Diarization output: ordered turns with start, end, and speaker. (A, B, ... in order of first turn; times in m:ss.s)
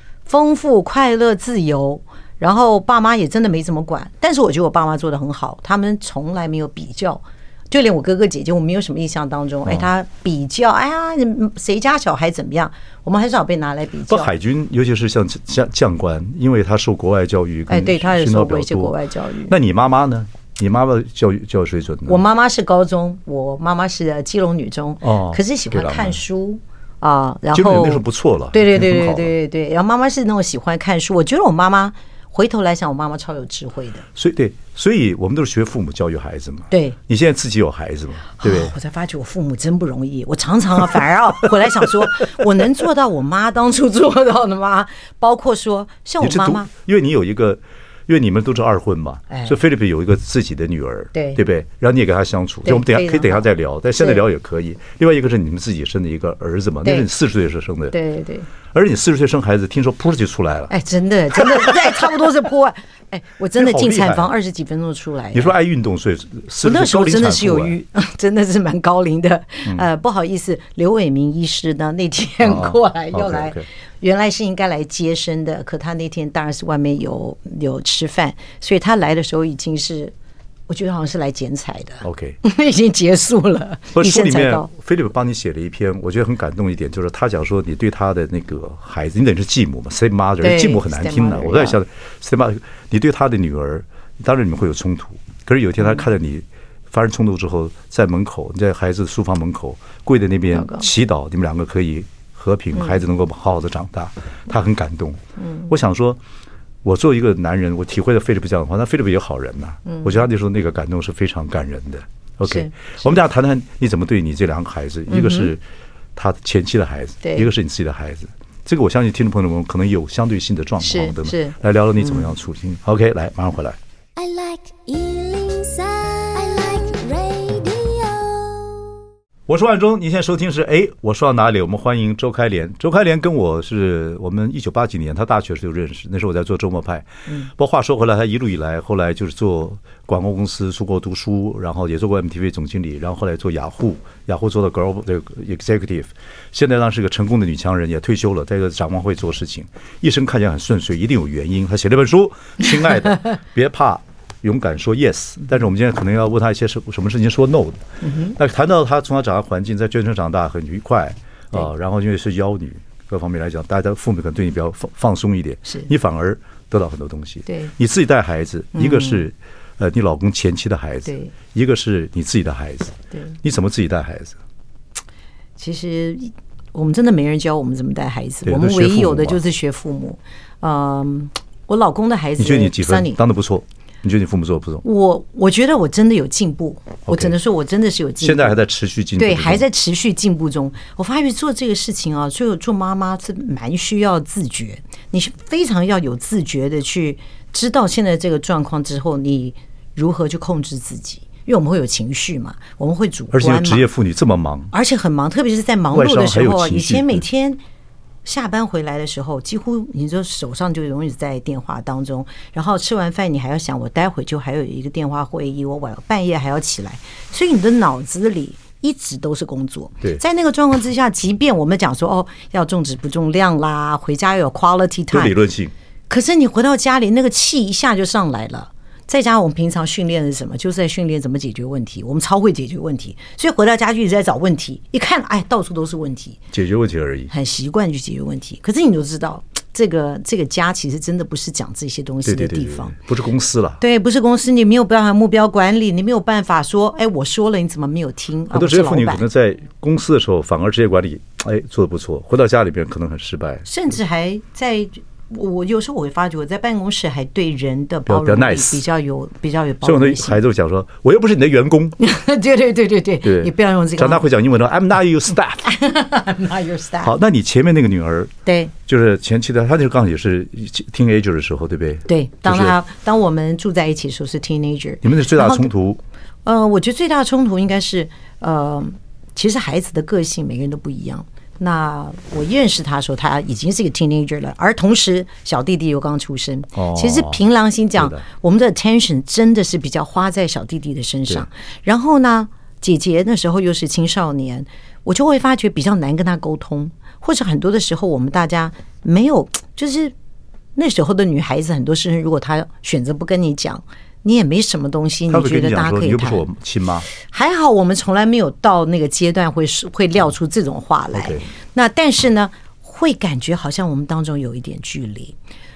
0:00.3-0:14.3 A
0:14.1-0:19.0 B
0:17.7-0:19.5 A
0:19.5-0:22.2 B
0:22.1-0:34.0 A
0:25.0-0:26.2 B
0:27.5-0:29.3 B
0:34.2-0:38.7 B
0:36.7-0:37.0 A
0:38.4-0:46.7 A
0:46.2-0:58.0 B
0:49.3-0:49.6 A
0:51.1-0:51.4 A
0:52.6-0:54.2 A
0:57.9-0:58.5 A
0:58.7-1:00.7 B
1:00.7-1:05.6 A
1:01.4-1:02.0 B
1:03.6-1:04.3 B
1:05.3-1:07.8 B
1:06.6-1:20.1 A
1:12.4-1:13.7 B
1:20.7-1:24.7 A
1:22.0-1:22.4 B
1:23.9-1:46.2 B
1:30.4-1:31.8 A
1:40.5-1:40.9 A
1:45.4-1:45.7 A
1:46.8-1:55.6 B
1:49.9-1:50.2 A
1:52.5-1:53.1 A
1:55.1-1:55.5 A
1:56.2-2:03.8 B
1:57.2-1:57.5 A
2:00.8-2:02.3 A
2:04.2-2:09.0 C
2:09.5-2:37.8 B
2:38.0-2:38.4 A
2:38.4-2:54.4 B
2:47.5-2:47.7 A
2:48.8-2:49.2 A
2:51.1-2:51.3 A
2:55.6-3:03.2 A
2:58.4-2:59.4 B
3:02.4-3:04.8 B
3:04.8-3:08.6 A
3:07.1-3:07.3 B
3:08.2-3:09.6 B
3:09.2-3:23.9 A
3:23.3-3:24.7 B
3:24.7-3:27.6 A
3:25.9-3:27.2 B
3:28.2-3:45.4 A
3:45.1-3:45.7 B
3:46.1-3:56.4 A
3:56.5-3:57.3 B
3:57.3-4:03.0 A
4:02.2-4:03.8 B
4:03.8-4:09.2 A
4:08.5-4:13.7 B
4:13.6-4:20.4 A
4:18.1-4:18.8 B
4:19.8-4:22.0 B
4:22.0-4:24.2 A
4:23.2-4:25.7 B
4:25.6-4:27.1 A
4:27.0-4:28.3 B
4:28.5-4:28.7 A
4:28.8-4:32.8 B
4:32.1-4:35.7 A
4:35.0-4:36.0 B
4:36.4-5:00.1 A
4:46.8-4:47.4 B
4:48.0-4:48.2 B
5:00.8-5:06.4 A
5:05.3-5:07.1 B
5:07.2-5:15.4 A
5:11.1-5:11.5 B